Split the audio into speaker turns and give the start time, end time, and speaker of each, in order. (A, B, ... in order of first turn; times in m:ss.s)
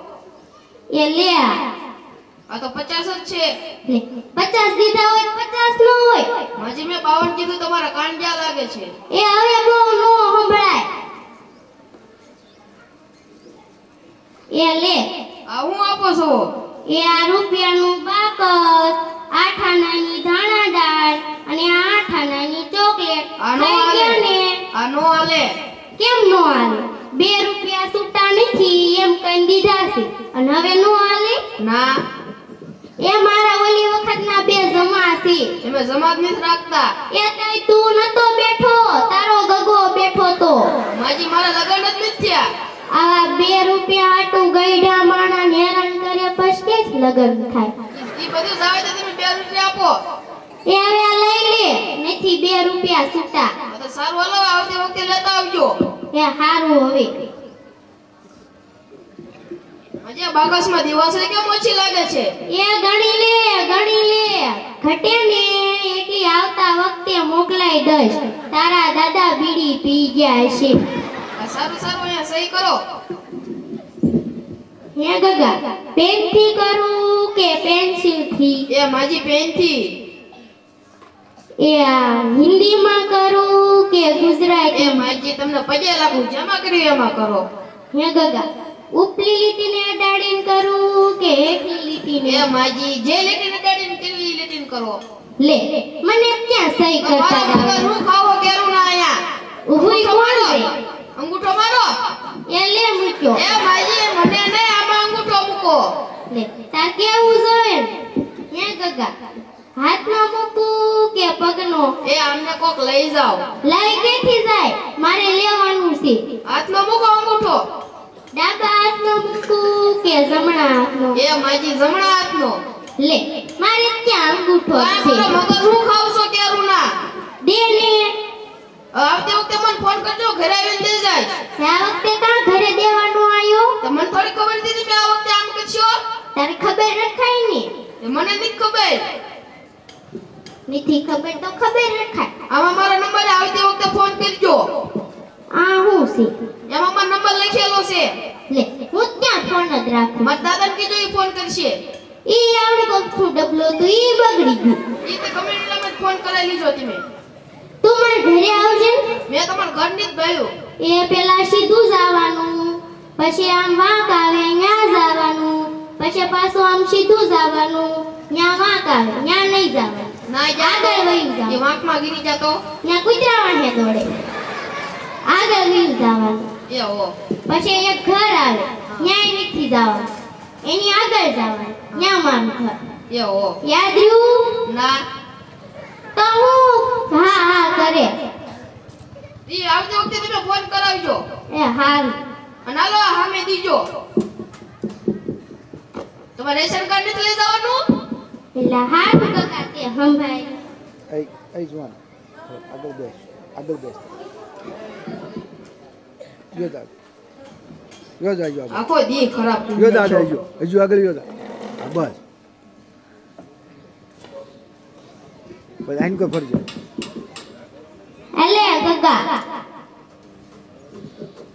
0:00.9-0:01.6 A
0:02.5-0:03.5 B
0:03.9-0:06.4 A
0:06.6-0:08.9 B
0:09.1-0:10.9 A
0:14.5-0:15.1 A
0:15.5-0:16.4 B
0:16.9-0:24.6 A
0:23.4-0:25.5 B
0:26.0-0:31.4 A
0:31.6-0:31.9 B
0:33.0-0:35.5 A
0:35.6-0:36.9 B
0:37.1-0:40.7 A
0:40.9-0:42.5 B
0:42.9-0:47.7 A
0:47.9-0:49.9 B
0:50.6-0:53.5 A
0:53.7-0:55.7 B
0:56.1-0:57.3 A
1:00.0-1:02.3 B
1:02.5-1:10.8 A
1:11.4-1:12.8 B
1:15.0-1:18.7 A
1:18.7-1:19.9 B
1:21.6-1:25.0 A
1:24.7-1:27.4 B
1:27.9-1:32.5 A
1:32.2-1:35.0 B
1:35.4-1:37.9 A
1:37.0-1:39.1 B
1:39.7-1:40.7 A
1:39.7-1:41.9 B
1:42.5-1:43.4 A
1:43.4-1:45.8 B
1:46.3-1:47.9 A
1:48.5-1:49.1 A
1:49.8-1:52.0 A
1:52.0-1:53.4 B
1:53.6-1:56.2 A
1:56.5-1:57.6 B
1:58.3-2:01.2 A
2:01.1-2:02.6 B
2:03.0-2:05.3 A
2:04.7-2:06.8 B
2:07.4-2:08.1 A
2:08.9-2:11.3 B
2:11.6-2:13.7 A
2:13.8-2:15.9 B
2:16.3-2:17.7 A
2:18.0-2:19.0 B
2:20.7-2:22.3 A
2:22.5-2:24.6 B
2:25.5-2:26.3 A
2:26.7-2:28.1 B
2:28.5-2:30.4 A
2:30.2-2:31.7 B
2:32.2-2:34.8 A
2:35.0-2:37.0 B
2:37.8-2:39.0 A
2:39.3-2:40.5 B
2:40.8-2:51.6 A
2:50.3-2:52.6 B
2:52.8-2:54.1 A
2:55.2-2:56.5 A
2:56.7-2:57.1 B
2:57.5-3:00.1 A
3:00.6-3:02.8 A
3:03.1-3:03.6 B
3:03.6-3:04.6 A
3:04.6-3:05.0 B
3:06.1-3:08.1 A
3:09.5-3:11.2 B
3:11.5-3:12.2 A
3:12.6-3:13.8 B
3:16.4-3:17.8 B
3:18.5-3:20.6 A
3:21.1-3:24.1 C
3:26.5-3:26.9 C
3:28.2-3:28.8 C
3:28.7-3:30.4 B
3:29.8-3:31.3 C
3:31.8-3:32.2 C
3:35.8-3:36.6 C
3:38.3-3:39.4 A